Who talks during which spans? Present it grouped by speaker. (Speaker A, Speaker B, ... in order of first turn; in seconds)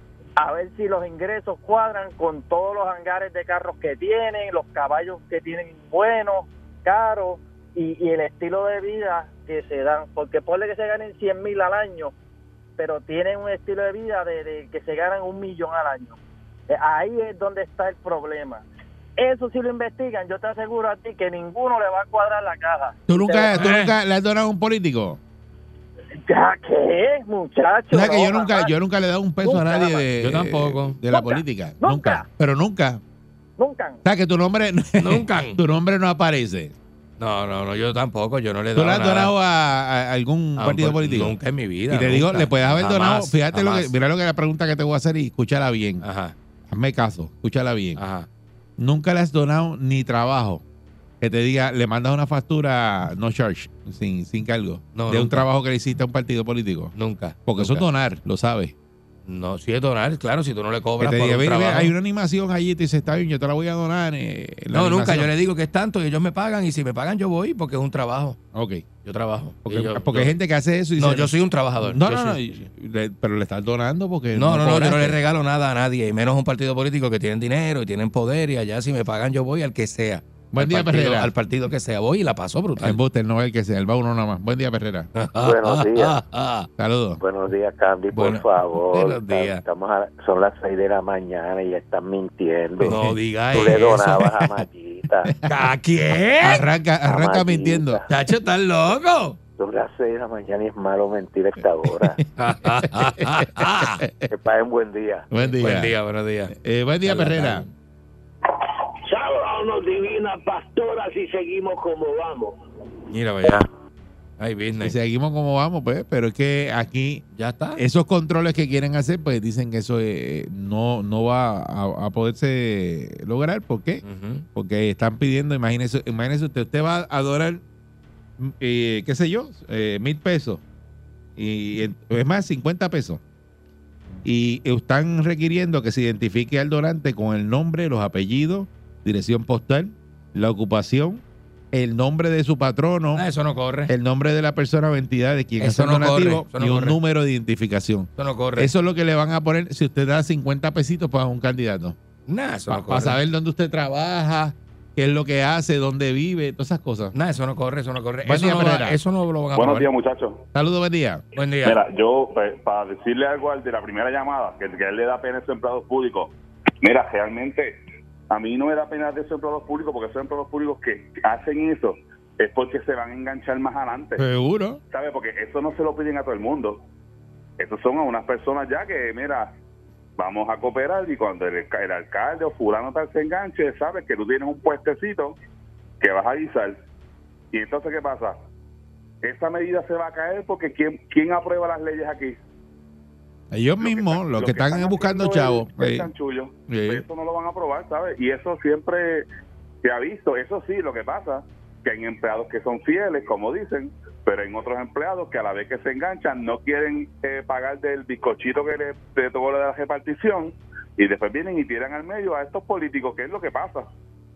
Speaker A: 0.4-12.1, 12.8-16.2, 16.7-18.6, 19.2-23.6, 26.3-28.7, 29.4-30.0, 31.1-32.2, 33.6-34.0
Speaker B: 23.1-25.2, 27.9-33.0, 34.0-36.8, 38.7-41.3, 41.9-46.0, 46.7-48.0, 48.8-50.6, 51.2-56.9, 57.5-58.7, 61.0-65.3, 68.5-68.8, 69.7-75.2, 80.5-81.3, 82.8-85.1, 86.8-87.2, 96.4-98.0, 105.3-105.9, 106.5-107.7, 114.8-117.2, 117.7-124.0, 124.5-127.6, 128.4-130.6, 131.4-133.2, 134.2-143.2, 143.9-152.0, 152.7-157.1, 158.2-159.0, 160.5-161.2, 174.2-174.8, 193.5-196.1, 196.7-197.0
Speaker C: 23.5-23.9, 30.2-31.0, 35.0-35.6, 37.2-39.3, 40.6-43.9, 46.0-46.3, 48.0-48.3, 54.9-55.4, 56.9-57.8, 59.2-61.9, 64.7-68.4, 69.0-70.3, 71.0-72.4, 74.3-83.0, 85.2-86.7, 88.1-89.6, 92.8-94.5, 95.5-96.6, 98.1-99.4, 102.4-104.0, 105.6-106.5, 107.0-107.7, 113.1-113.7, 114.4-114.9, 117.3-117.8, 124.0-124.5, 143.1-143.9, 145.6-147.0, 148.2-148.7, 152.3-153.2, 157.1-159.9, 161.3-161.8
Speaker D: 85.4-86.2, 87.2-95.3, 97.0-98.0, 99.6-102.2, 104.3-105.3
Speaker E: 109.1-112.5
Speaker F: 159.5-160.4, 161.6-167.8, 168.3-174.2, 174.9-176.8, 177.6-179.5, 180.2-185.4, 186.0-186.8, 187.5-188.4, 189.2-192.4, 193.8-199.3, 199.8-213.9